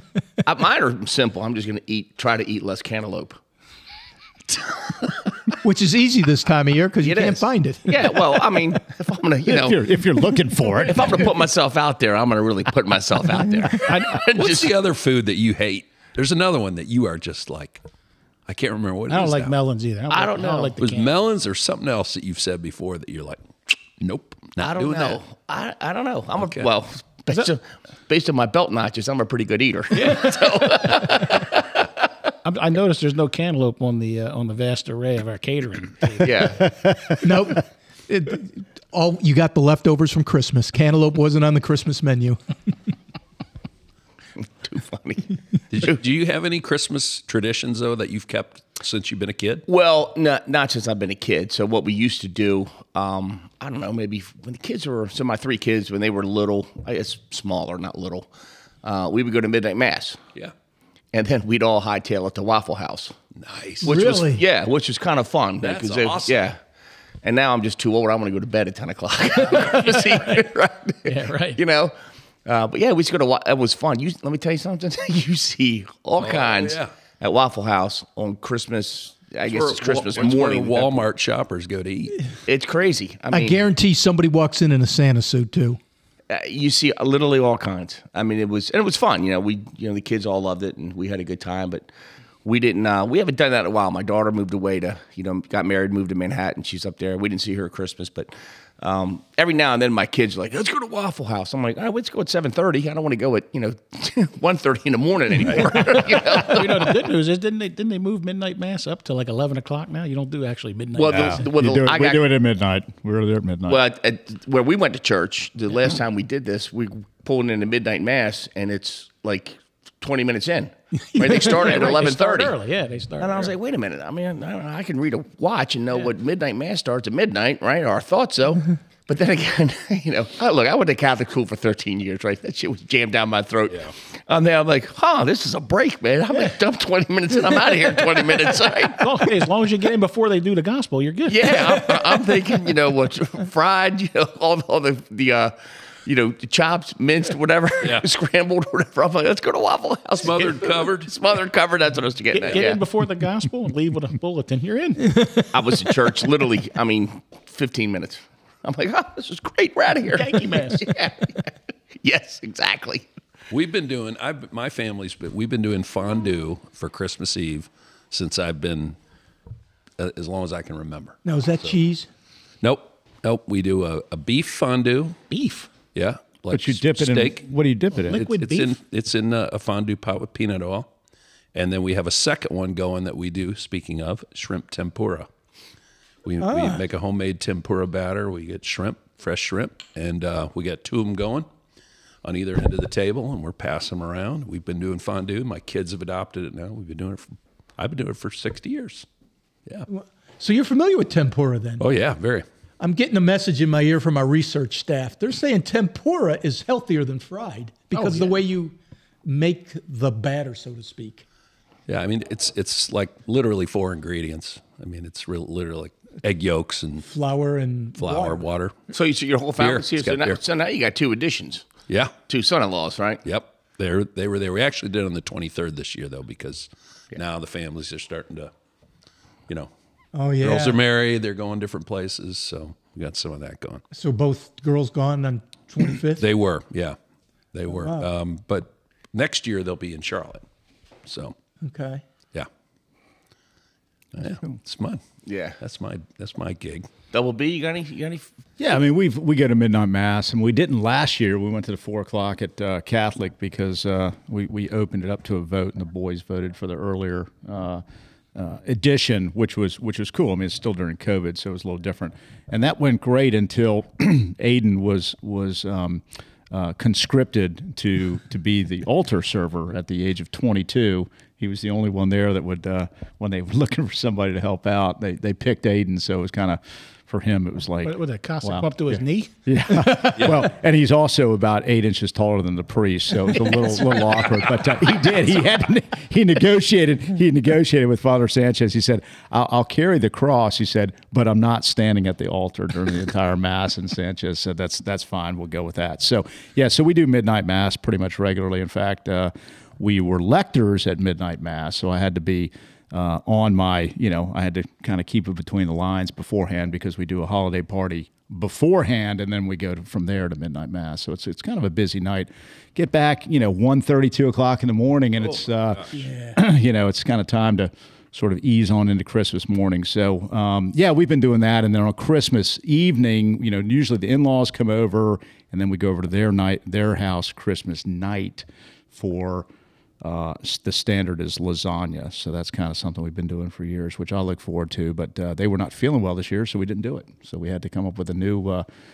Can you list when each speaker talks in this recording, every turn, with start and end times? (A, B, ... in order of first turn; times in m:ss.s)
0:00.4-0:03.4 A
0:05.6-0:08.6 B
0:07.0-0:09.9 A
0:09.5-0:11.3 C
0:10.8-0:14.7 A
0:13.9-0:14.2 D
0:14.2-0:17.8 E
0:18.5-0:19.6 E
0:19.1-0:21.2 D
0:20.1-0:20.7 A
0:20.8-0:25.2 E
0:24.6-0:31.6 A
0:26.4-0:26.7 E
0:30.0-0:30.6 E
0:32.4-0:36.7 D
0:36.2-0:36.7 A
0:36.6-0:37.2 C
0:37.2-0:42.4 B
0:44.4-0:46.0 A
0:45.7-0:49.7 E
0:49.7-0:58.3 A
0:58.8-1:00.2 A
1:01.1-1:03.2 A
1:03.4-1:04.0 E
1:03.8-1:04.4 B
1:03.8-1:06.6 A
1:05.6-1:06.5 E
1:07.2-1:11.9 A
1:09.6-1:10.4 D
1:11.0-1:11.6 D
1:12.5-1:21.0 A
1:16.2-1:16.9 E
1:19.4-1:22.2 E
1:22.5-1:23.6 A
1:23.3-1:25.8 B
1:26.3-1:31.9 A
1:32.4-1:47.0 A
1:45.6-1:51.5 D
1:51.0-1:52.3 A
1:51.1-1:53.8 C
1:53.7-2:02.6 A
2:01.1-2:03.5 D
2:03.2-2:19.1 A
2:18.9-2:22.0 D
2:21.3-2:32.8 A
2:30.2-2:31.1 E
2:32.3-2:35.2 D
2:35.5-2:41.5 A
2:40.1-2:40.9 D
2:42.0-2:43.1 A
2:43.5-2:49.0 E
2:50.0-2:51.8 E
2:51.2-2:52.1 B
2:52.6-2:55.2 E
2:55.3-2:55.7 D
2:55.9-2:57.5 E
2:56.5-2:58.2 C
2:58.0-2:58.8 D
2:58.1-3:00.9 E
3:01.5-3:05.3 E
3:06.2-3:11.5 E
3:06.4-3:06.8 B
3:12.2-3:19.1 E
3:19.9-3:21.8 B
3:21.8-3:22.4 E
3:22.8-3:31.2 B
3:27.9-3:28.4 D
3:31.9-3:37.1 E
3:37.1-3:38.4 B
3:38.0-3:38.8 E
3:38.9-3:41.7 A
3:39.6-3:40.4 E
3:41.9-3:42.1 E
3:42.3-3:43.2 A
3:43.2-3:48.5 E
3:50.1-3:50.8 B
3:50.4-3:53.8 E
3:53.9-3:56.3 B
3:56.2-3:57.0 E
3:57.5-4:00.4 E
3:57.8-3:58.1 B
4:01.1-4:01.4 E
4:01.6-4:02.0 B
4:04.1-4:05.0 E
4:05.3-4:05.6 A
4:05.6-4:06.9 E
4:07.1-4:08.3 A
4:08.6-4:17.8 C
4:18.4-5:29.5 C
4:37.8-4:39.3 D
5:16.0-5:16.4 B
5:30.0-5:38.7 C